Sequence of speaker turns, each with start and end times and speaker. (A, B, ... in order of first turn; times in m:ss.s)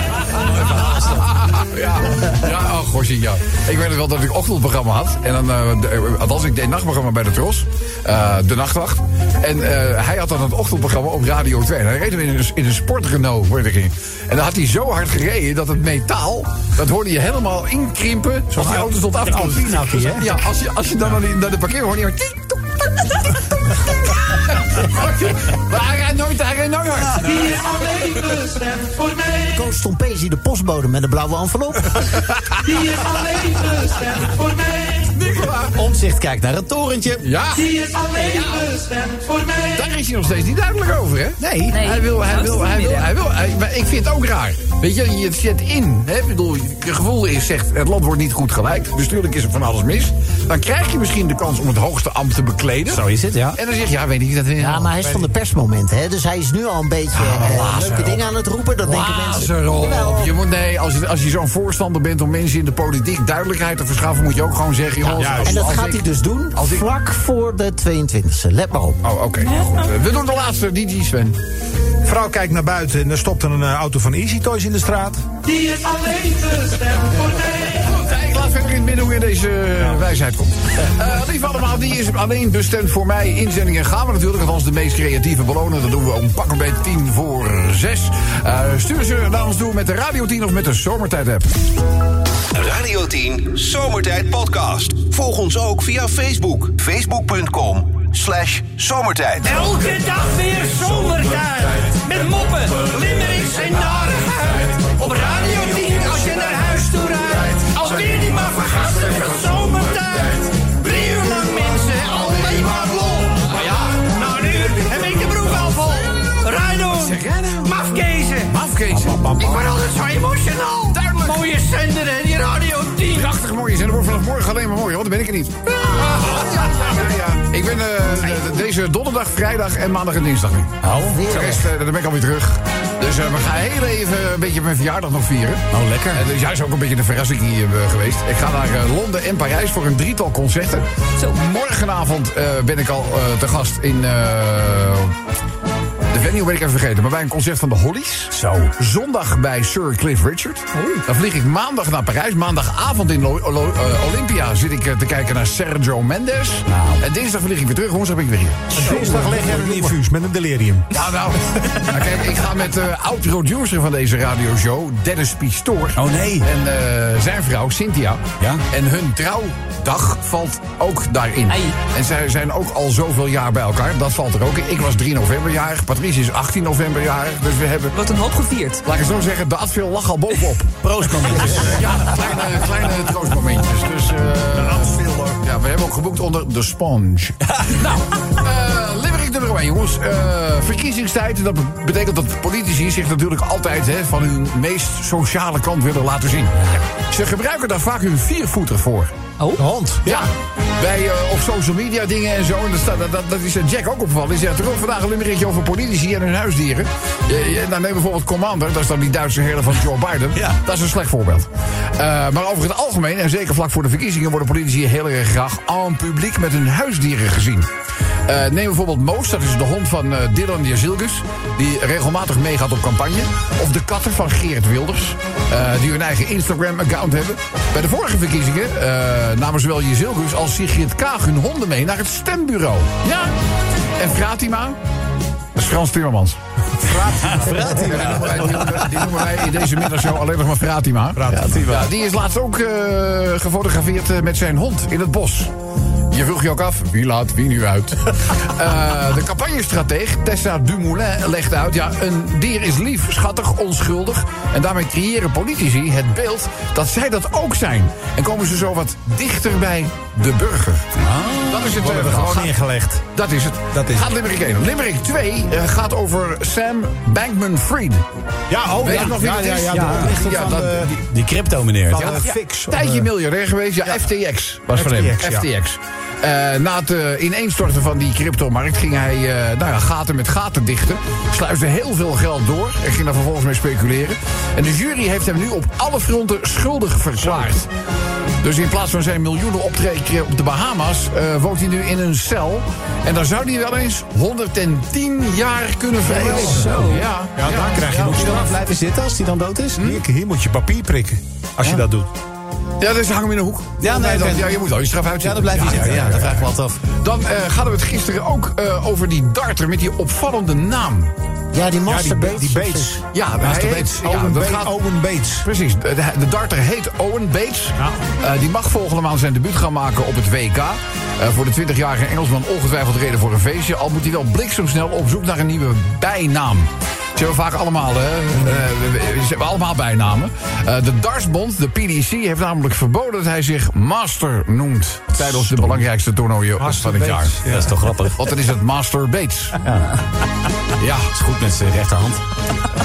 0:00.2-0:23.3 A
0:18.5-0:20.4 B
0:24.1-0:28.1 A
0:29.5-0:32.1 C
0:35.0-0:35.8 A
0:35.7-0:37.2 D
0:37.2-0:38.8 A
0:39.7-0:54.9 A
0:41.4-0:41.8 D
0:41.7-0:43.1 E
0:52.9-0:53.6 D
0:54.6-1:00.3 C
0:55.0-0:55.3 B
0:57.1-0:58.2 A
0:58.8-1:06.9 A
1:05.0-1:09.0 C
1:05.1-1:05.7 B
1:09.0-1:11.4 A
1:09.4-1:09.8 E
1:12.0-1:15.2 B
1:17.1-1:31.5 A
1:32.5-1:39.7 F
1:39.5-1:58.5 G
1:56.9-1:57.7 A
1:58.4-1:59.4 A
1:58.9-1:59.7 B
1:59.4-2:03.3 G
2:00.9-2:01.5 A
2:03.1-2:25.1 A
2:06.0-2:06.3 B
2:06.8-2:07.2 B
2:10.8-2:11.3 D
2:11.1-2:11.7 C
2:15.7-2:16.2 D
2:26.1-2:39.9 A
2:28.3-2:28.7 D
2:30.7-2:31.0 E
2:36.6-2:37.0 D
2:38.7-2:41.0 B
2:40.9-2:57.9 A
2:46.0-2:46.5 D
2:51.5-2:51.8 E
2:57.9-2:58.8 E
2:58.8-3:00.7 A
3:00.8-3:01.8 D
3:01.4-3:19.1 A
3:04.5-3:05.3 B
3:19.6-3:20.3 B
3:20.0-3:37.7 A
3:38.3-3:53.3 A
3:54.0-3:54.8 A
3:55.5-3:56.4 A
3:56.8-3:58.5 B
3:57.2-3:58.8 D
3:57.8-4:05.5 A
4:01.2-4:01.9 B
4:06.1-4:20.9 A
4:21.0-4:22.0 D
4:21.5-4:22.6 A
4:21.7-4:23.0 B
4:23.1-4:28.0 A
4:23.7-4:24.1 B
4:28.5-4:30.9 B
4:28.8-4:30.9 A
4:29.7-4:32.2 D
4:31.9-4:33.1 B
4:31.9-4:47.7 A
4:34.7-4:35.5 B
4:47.2-4:47.5 B
4:48.4-4:58.0 A
4:56.1-4:57.0 D
4:56.1-4:56.7 B
4:56.7-4:57.0 E
4:57.4-4:58.5 B
4:57.8-4:59.9 D
4:59.8-5:02.1 B
5:02.8-5:11.1 A
5:03.8-5:04.6 D
5:05.2-5:06.8 D
5:11.5-5:13.0 C
5:11.8-5:15.5 B
5:13.1-5:14.7 A
5:15.4-5:37.5 A
5:17.8-5:18.0 B
5:35.2-5:35.8 D
5:36.6-5:37.8 B
5:37.4-5:38.2 D
5:38.2-5:39.6 A
5:39.6-5:40.0 D
5:40.8-5:41.1 A
5:41.1-5:42.2 D